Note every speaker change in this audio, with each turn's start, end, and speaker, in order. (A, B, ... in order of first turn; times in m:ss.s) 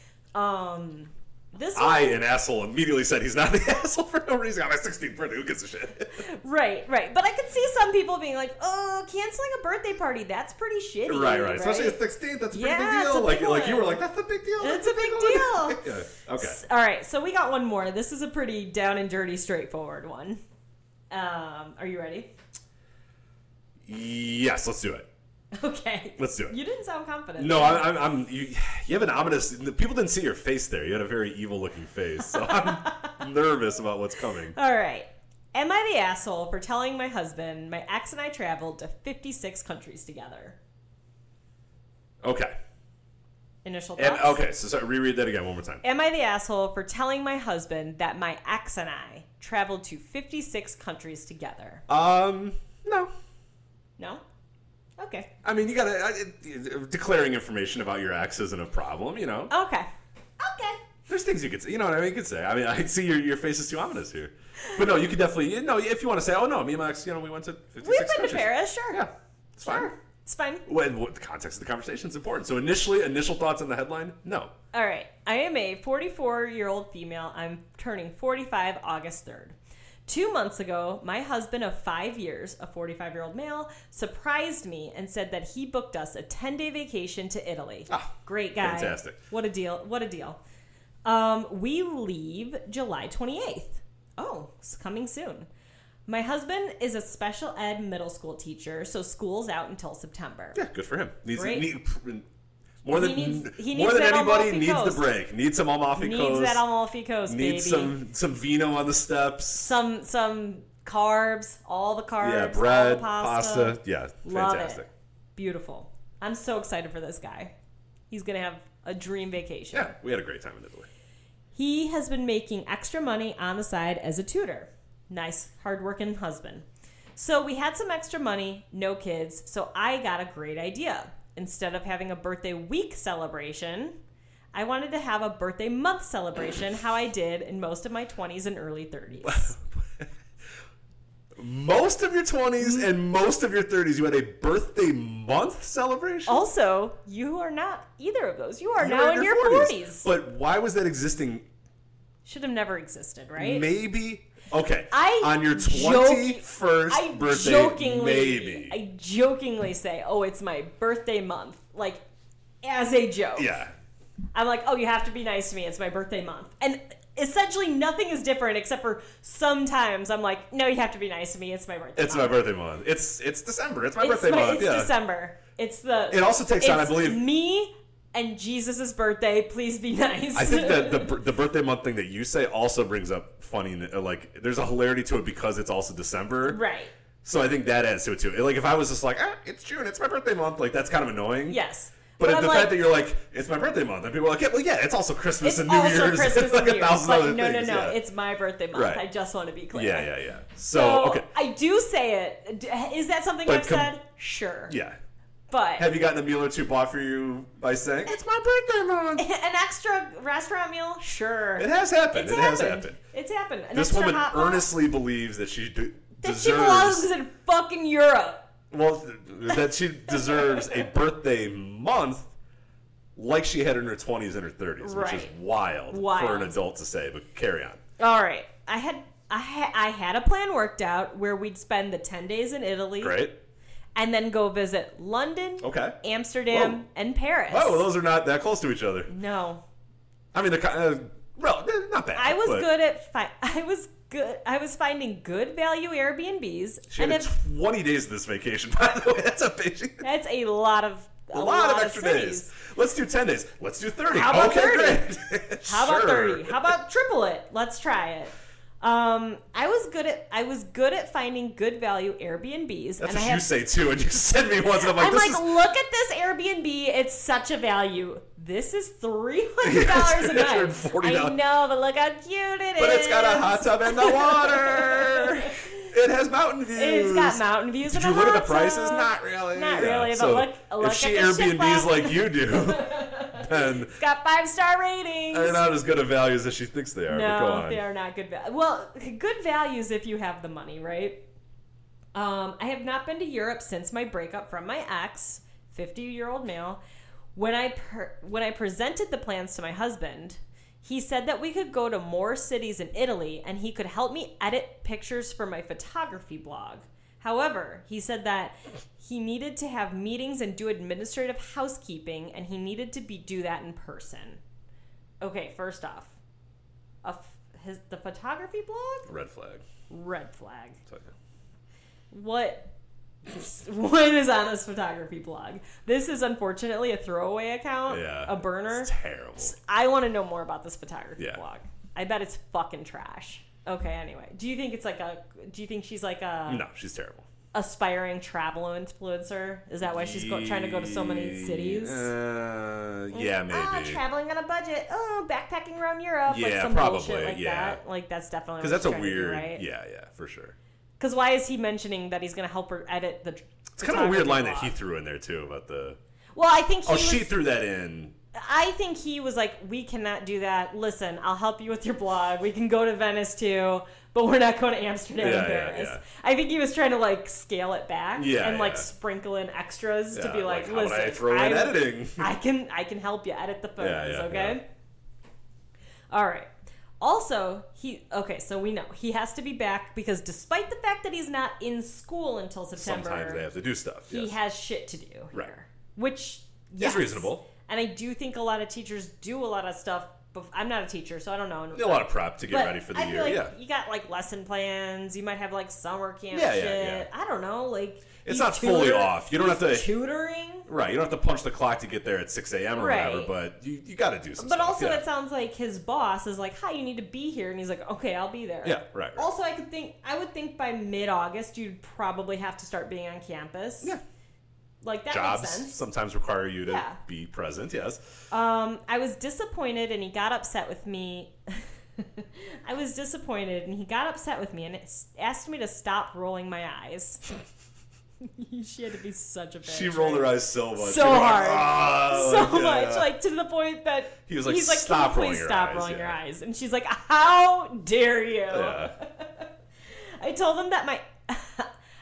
0:00.4-0:02.2 A
0:01.8-0:06.2 B
0:06.2-0:12.0 A
0:11.1-0:16.6 B
0:12.5-0:14.0 A
0:14.6-0:20.4 A
0:21.1-0:22.3 A
0:23.9-0:25.1 B
0:25.6-0:27.9 A
0:26.2-0:26.6 B
0:27.4-0:34.6 B
0:32.2-0:33.2 A
0:34.5-0:40.6 A
0:42.2-0:42.5 B
0:43.6-0:44.4 A
0:44.0-0:45.8 B
0:45.8-0:51.8 A
0:51.9-0:53.1 B
0:54.0-0:54.2 A
0:55.0-0:55.3 A
0:55.4-0:59.5 B
0:59.5-0:59.9 A
1:00.4-1:00.8 A
1:01.1-1:09.9 B
1:07.8-1:09.0 A
1:09.6-1:10.6 A
1:10.7-1:14.5 B
1:14.7-1:19.6 A
1:20.1-1:30.4 A
1:27.9-1:29.2 B
1:31.0-1:35.5 A
1:36.1-1:40.6 A
1:40.6-1:42.3 B
1:41.4-1:41.7 A
1:42.8-1:46.6 B
1:42.9-1:45.1 A
1:46.0-1:48.0 A
1:47.3-1:49.7 B
1:49.5-1:54.8 A
1:52.2-1:54.9 B
1:55.4-1:57.6 A
1:58.1-2:00.0 A
1:59.7-2:00.9 B
2:01.6-2:14.0 A
2:14.5-2:19.5 A
2:19.2-2:20.1 B
2:21.4-2:26.4 B
2:22.6-2:22.9 A
2:26.3-2:30.1 A
2:28.8-2:31.4 B
2:32.2-2:33.7 A
2:33.4-2:38.8 B
2:34.9-2:42.0 A
2:42.6-2:43.6 A
2:43.4-2:43.7 B
2:44.3-2:52.4 A
2:52.0-2:54.9 B
2:54.0-3:01.2 A
2:56.1-2:57.2 B
3:00.3-3:06.6 B
3:06.5-3:06.9 A
3:07.2-3:11.6 B
3:11.5-3:12.8 A
3:12.2-3:18.0 B
3:15.4-3:20.1 A
3:18.7-3:19.0 B
3:19.7-3:21.3 B
3:20.7-3:24.8 A
3:23.5-3:23.9 B
3:24.7-3:25.0 B
3:25.5-3:25.9 A
3:25.8-3:29.2 B
3:29.2-3:34.7 A
3:31.6-3:33.0 B
3:33.7-3:37.1 B
3:36.2-3:38.4 A
3:38.7-3:42.3 B
3:40.1-3:40.8 A
3:43.2-3:47.8 B
3:44.8-3:45.3 A
3:45.9-3:46.6 A
3:48.0-3:53.2 A
3:53.0-3:53.4 B
3:54.0-3:57.9 A
3:55.6-3:56.0 B
3:56.5-3:56.8 B
3:57.5-3:59.1 B
3:59.1-3:59.6 A
4:00.3-4:02.7 B
4:02.2-4:07.4 A
4:06.9-4:10.1 B
4:10.0-4:12.6 A
4:11.3-4:16.7 B
4:14.1-4:15.1 A
4:15.6-4:23.5 A
4:23.0-4:25.5 B
4:24.8-4:35.8 A
4:29.6-4:31.4 B
4:32.8-4:44.0 B
4:36.8-4:45.7 A
4:45.3-4:47.8 B
4:47.1-4:51.2 A
4:52.2-4:56.8 A
4:57.4-5:14.4 A
5:15.2-5:16.1 A
5:17.0-5:19.1 A
5:19.1-5:19.6 B
5:19.9-5:20.8 A
5:22.1-5:22.7 A
5:23.3-5:36.6 A
5:27.9-5:29.6 B
5:36.5-5:37.3 B
5:37.5-5:42.1 A
5:39.8-5:44.0 B
5:43.1-5:49.6 A
5:46.3-5:47.8 B
5:48.6-5:50.6 B
5:51.0-5:54.8 A
5:53.8-5:56.0 B
5:56.4-5:57.3 A
5:56.8-5:58.2 B
5:58.3-6:14.7 A
6:05.2-6:06.0 B
6:08.2-6:08.9 B
6:10.1-6:12.3 B
6:13.8-6:14.6 B
6:16.1-6:16.5 A
6:17.0-6:23.4 A
6:22.8-6:24.3 B
6:24.1-6:40.7 A
6:26.8-6:27.4 B
6:31.7-6:33.5 B
6:36.3-6:37.1 B
6:38.2-6:39.9 B
6:40.7-6:45.0 B
6:42.8-6:43.3 A
6:44.4-6:54.0 A
6:48.6-6:49.3 B
6:54.8-6:55.8 A
6:55.1-6:58.0 B
6:56.7-6:57.0 A
6:58.3-7:07.2 A
7:08.4-7:21.7 A
7:09.6-7:13.1 B
7:14.3-7:16.2 B
7:18.5-7:18.9 B